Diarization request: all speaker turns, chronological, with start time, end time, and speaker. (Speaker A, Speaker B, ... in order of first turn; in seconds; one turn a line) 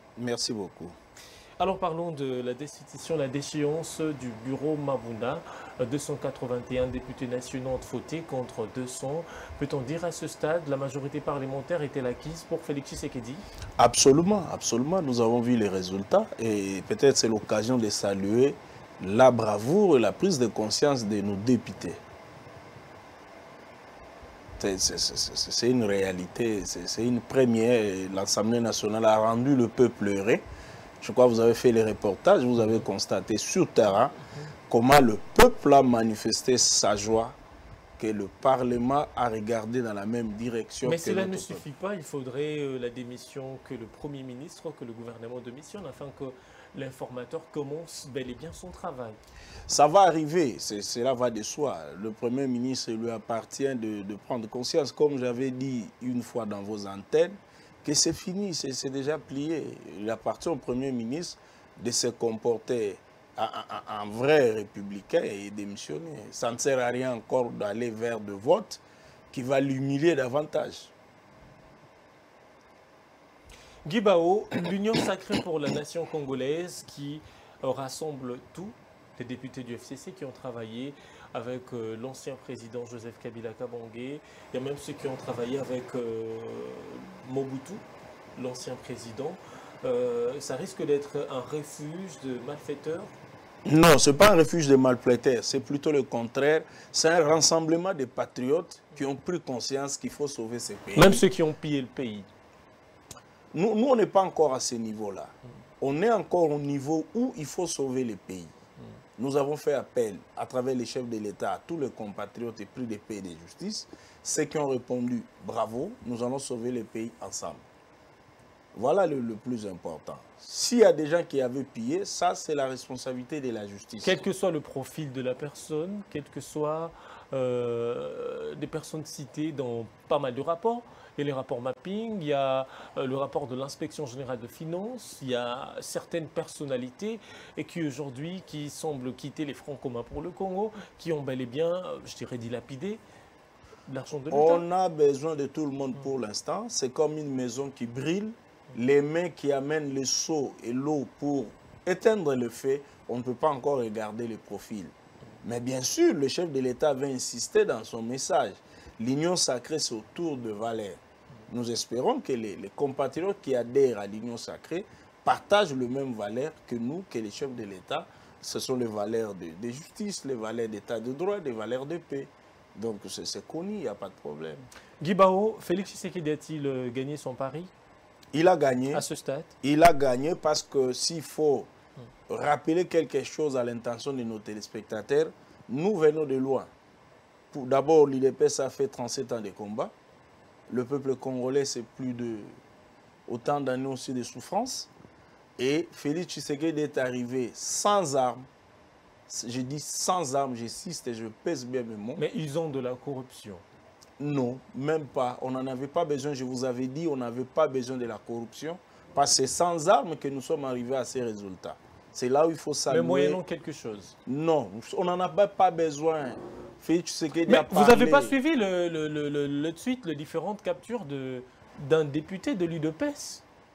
Speaker A: 0.2-1.0
Speaker B: 1.6-13.4
Speaker A: 13.8-22.0
Speaker A: 24.6-30.4
Speaker A: 31.0-34.1
Speaker A: 34.7-37.4
Speaker A: 38.0-41.6
Speaker B: 40.8-49.2
Speaker A: 49.7-70.9
Speaker B: 73.9-87.8
Speaker B: 88.4-93.2
Speaker A: 93.7-101.2
Speaker B: 101.0-102.3
Speaker A: 103.5-108.5
Speaker A: 109.2-117.7
Speaker A: 118.7-124.2
Speaker B: 124.0-143.0
Speaker B: 143.9-144.6
Speaker A: 144.3-174.7
Speaker B: 175.0-177.7
Speaker A: 178.3-179.1
Speaker B: 178.9-179.5
Speaker A: 179.6-181.7
Speaker A: 182.3-186.7
Speaker A: 187.5-189.9
Speaker A: 190.7-192.5
Speaker A: 193.3-194.9
Speaker A: 195.6-198.5
Speaker A: 199.3-202.2
Speaker B: 202.2-203.7
Speaker A: 204.2-213.4
Speaker B: 212.9-214.2
Speaker A: 214.3-218.4
Speaker B: 217.5-223.4